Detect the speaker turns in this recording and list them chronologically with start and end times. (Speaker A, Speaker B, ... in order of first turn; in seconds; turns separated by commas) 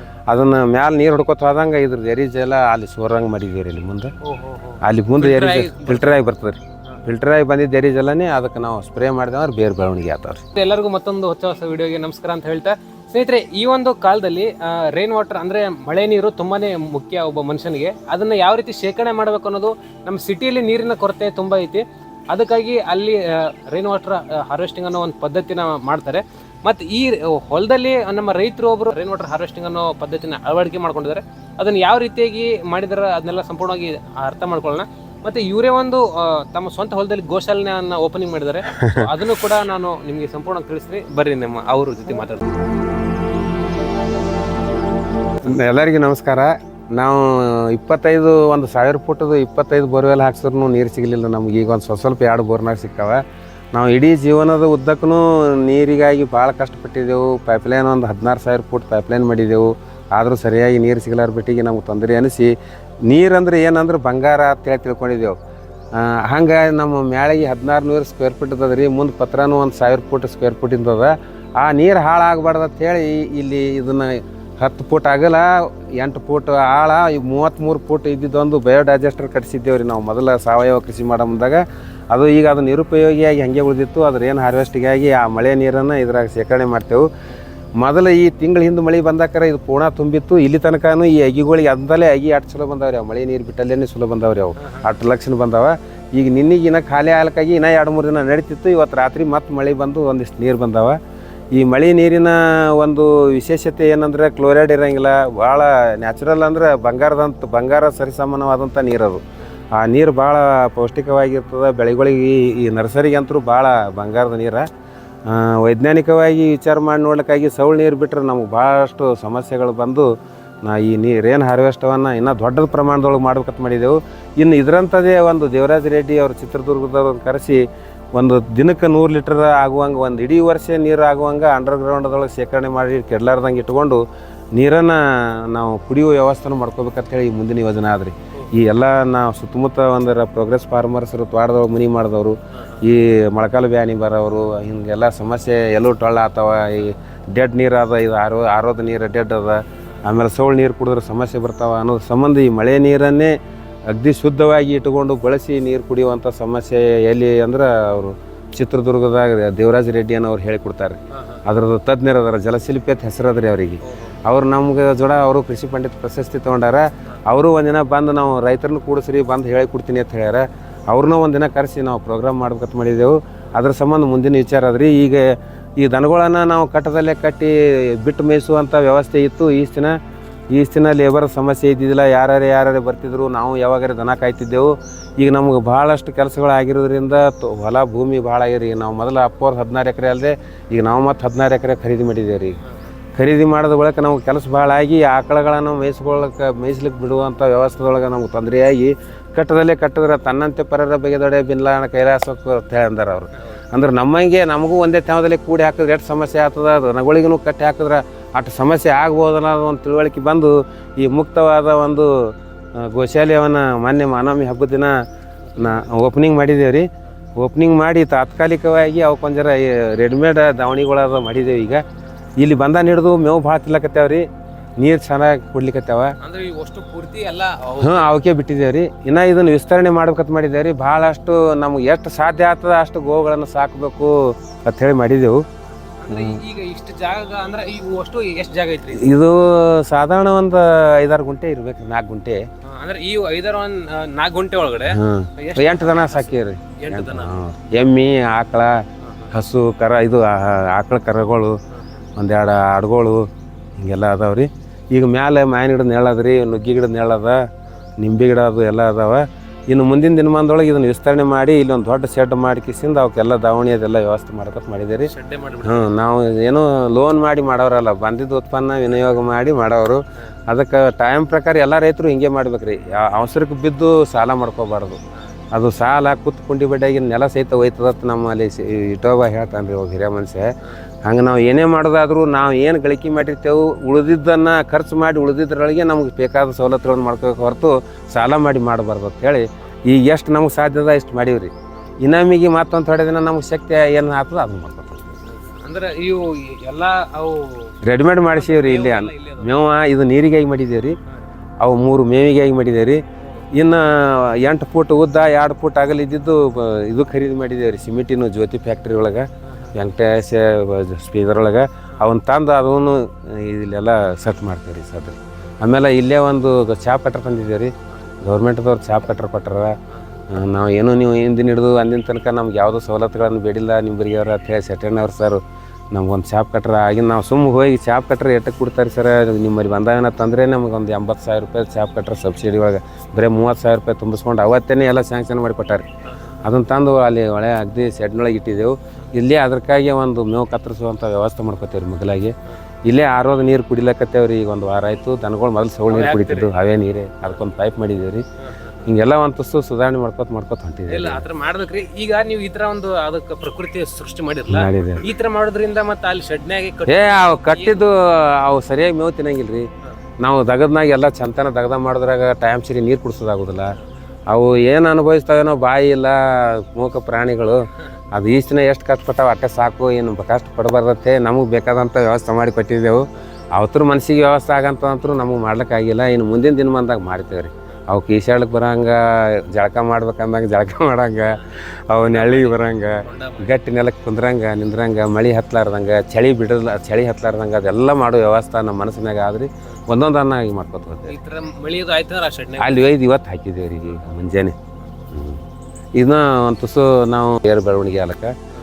Speaker A: 0.3-4.1, Speaker B: 4.2-6.2, Speaker A: 4.8-10.4, Speaker B: 10.5-42.5, Speaker A: 38.7-39.1, Speaker A: 45.4-62.5, Speaker A: 63.0-65.3, Speaker A: 66.0-87.1, Speaker A: 87.8-101.0, Speaker B: 94.6-94.9, Speaker A: 101.5-114.7, Speaker A: 115.2-120.1, Speaker A: 120.6-127.6, Speaker A: 128.1-134.0, Speaker A: 134.5-153.3, Speaker B: 142.6-142.8, Speaker A: 153.9-180.0, Speaker B: 161.1-161.4, Speaker B: 163.8-164.2, Speaker A: 180.5-192.6, Speaker B: 192.7-192.9, Speaker A: 193.2-214.9, Speaker B: 215.5-215.9, Speaker A: 215.6-216.8, Speaker A: 217.4-221.8, Speaker A: 222.4-224.2, Speaker A: 224.8-226.1, Speaker B: 226.2-228.2, Speaker A: 227.8-235.4, Speaker B: 236.0-239.2, Speaker A: 236.1-236.4, Speaker A: 238.9-242.4, Speaker B: 242.6-247.3, Speaker A: 244.9-251.6, Speaker B: 249.0-249.3, Speaker A: 252.2-253.2, Speaker A: 253.8-257.4, Speaker A: 258.0-265.1, Speaker B: 265.1-265.9, Speaker A: 265.6-275.0, Speaker A: 275.5-280.5, Speaker A: 281.0-295.2, Speaker B: 295.3-299.5, Speaker A: 297.8-300.9, Speaker A: 301.6-303.0, Speaker A: 303.5-319.7, Speaker B: 309.4-309.8, Speaker A: 320.3-325.4, Speaker A: 325.9-335.9, Speaker B: 336.1-336.4, Speaker A: 336.4-342.3, Speaker A: 342.9-348.2, Speaker B: 345.9-346.5, Speaker B: 348.4-348.9, Speaker A: 348.8-351.2, Speaker B: 350.9-357.9, Speaker A: 354.5-355.0, Speaker A: 356.9-359.7, Speaker A: 360.2-363.7, Speaker A: 364.3-373.0, Speaker A: 373.5-391.2, Speaker B: 382.1-383.5, Speaker B: 391.0-392.8, Speaker A: 392.6-394.6, Speaker A: 395.1-395.4, Speaker A: 396.0-398.3